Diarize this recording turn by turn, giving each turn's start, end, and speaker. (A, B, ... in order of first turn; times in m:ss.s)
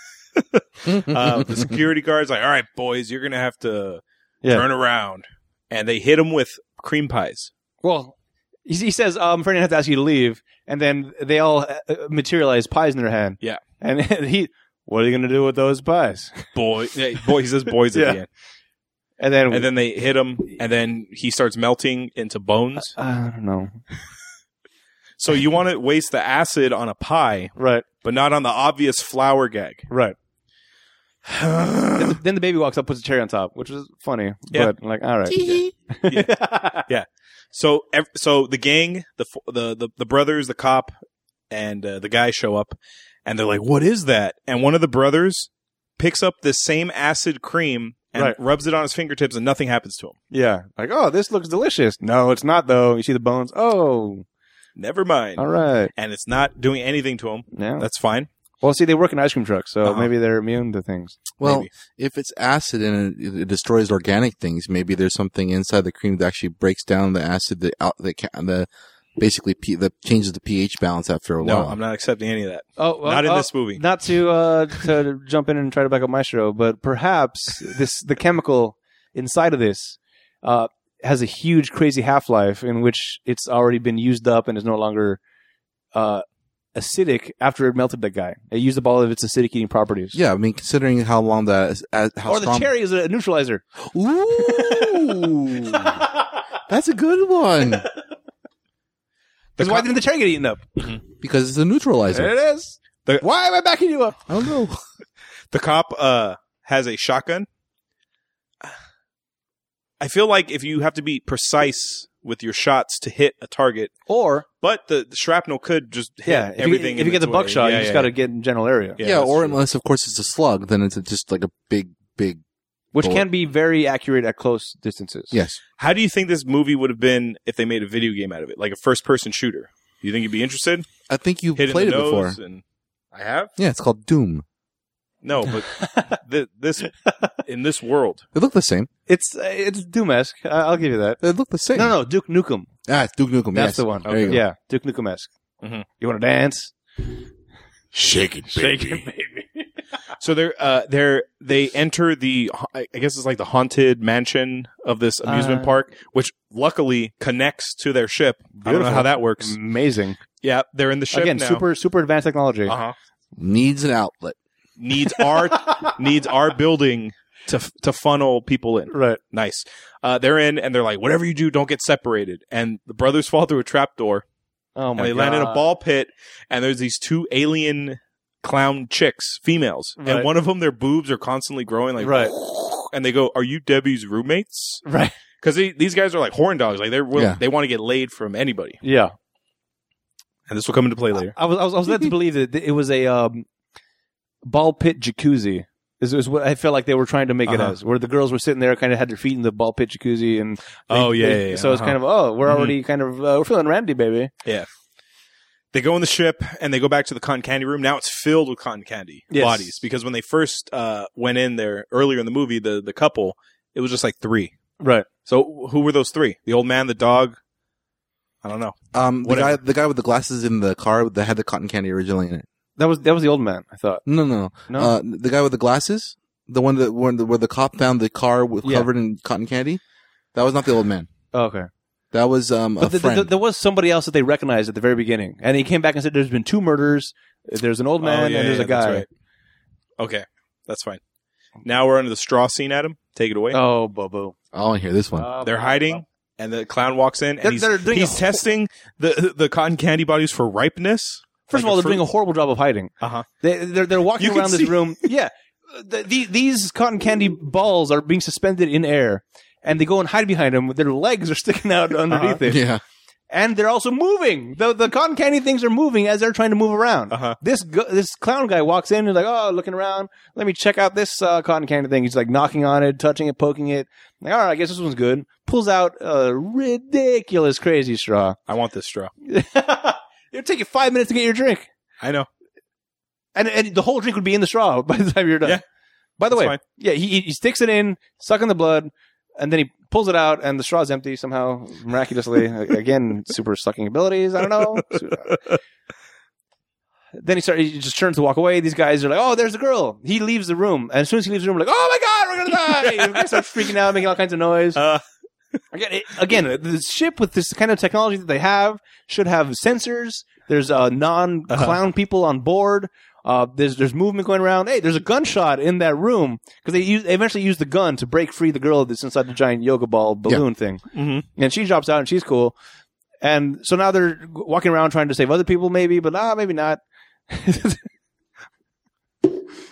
0:00.4-0:07.5 A
0:07.8-0:08.1 B
0:08.7-0:16.5 B
0:16.6-0:18.3 A
0:17.9-0:18.2 B
0:19.2-0:19.7 B
0:19.5-0:23.0 A
0:22.8-0:23.8 B
0:25.2-0:29.9 A
0:27.6-0:27.8 B
0:29.9-0:30.2 B
0:31.2-0:32.2 A
0:32.0-0:36.8 B
0:35.3-0:40.9 A
0:41.5-0:50.2 A
0:50.3-0:54.2 B
0:54.8-0:58.3 A
0:55.4-0:55.9 B
0:57.5-0:57.8 B
0:58.6-1:01.2 B
1:01.4-1:11.8 C
1:01.4-1:01.7 A
1:11.4-1:13.8 A
1:12.8-1:25.2 B
1:25.9-1:26.2 B
1:26.8-1:30.2 B
1:30.1-1:32.7 C
1:32.3-1:33.6 B
1:33.9-1:36.0 C
1:34.3-1:36.4 B
1:36.7-1:37.9 C
1:39.6-1:39.9 A
1:39.6-1:40.9 B
1:41.2-1:42.3 C
1:42.1-1:44.2 B
1:44.3-1:44.8 C
1:45.5-1:47.5 A
1:50.0-1:53.9 A
1:54.1-1:54.4 B
1:54.6-1:58.1 A
1:56.3-1:59.0 B
1:59.0-1:59.6 A
1:59.0-2:02.4 C
2:02.9-2:05.4 B
2:03.0-2:03.3 C
2:05.3-2:05.6 C
2:05.8-2:10.9 A
2:11.1-2:12.4 C
2:11.6-2:12.6 A
2:13.1-2:13.5 A
2:13.6-2:14.4 C
2:15.2-2:18.2 A
2:15.7-2:16.2 B
2:18.3-2:18.9 C
2:19.1-2:21.2 B
2:21.2-2:22.0 C
2:21.7-2:22.7 B
2:22.9-2:24.4 C
2:23.5-2:25.3 B
2:24.1-2:24.4 A
2:26.0-2:26.7 B
2:27.9-2:29.1 C
2:28.5-2:29.7 B
2:30.2-2:39.6 A
2:35.2-2:35.8 B
2:38.6-2:40.2 B
2:40.4-2:41.6 A
2:41.1-2:42.7 B
2:42.7-2:43.0 A
2:43.4-2:44.4 C
2:44.8-2:54.2 A
2:45.4-2:45.9 B
2:48.9-2:49.2 B
2:54.8-2:55.7 B
2:55.0-3:04.8 A
3:00.0-3:00.3 B
3:02.0-3:02.3 B
3:04.8-3:05.1 B
3:05.4-3:08.8 A
3:07.2-3:07.4 C
3:08.8-3:09.1 B
3:10.5-3:11.3 A
3:11.2-3:13.5 B
3:14.4-3:24.3 B
3:17.5-3:17.8 A
3:20.9-3:22.8 A
3:25.7-3:34.5 A
3:29.3-3:29.8 B
3:34.8-3:35.1 B
3:35.3-3:37.4 A
3:38.4-3:39.6 A
3:38.9-3:42.5 C
3:42.8-3:44.0 B
3:44.1-3:49.8 C
3:44.7-3:45.0 B
3:50.4-3:51.1 C
3:51.3-3:51.7 B
3:52.1-3:53.3 C
3:52.8-3:59.0 B
3:58.0-3:59.1 A
4:00.0-4:01.0 A
4:01.6-4:03.6 A
4:03.5-4:04.4 B
4:04.5-4:05.3 C
4:05.2-4:06.0 B
4:05.4-4:12.0 A
4:07.4-4:08.4 B
4:11.5-4:22.6 B
4:13.0-4:13.3 A
4:14.2-4:14.9 A
4:22.1-4:22.4 A
4:22.4-4:22.8 C
4:23.3-4:38.4 B
4:27.1-4:27.4 A
4:38.5-4:39.1 A
4:39.2-4:41.7 B
4:42.0-4:42.3 A
4:43.4-4:45.6 B
4:46.2-4:55.4 B
4:46.3-4:46.6 A
4:55.3-4:55.6 A
4:57.2-5:04.8 B
5:02.8-5:03.7 A
5:04.8-5:05.0 A
5:05.7-5:22.6 B
5:11.5-5:11.8 A
5:20.9-5:21.2 A
5:23.2-5:27.8 B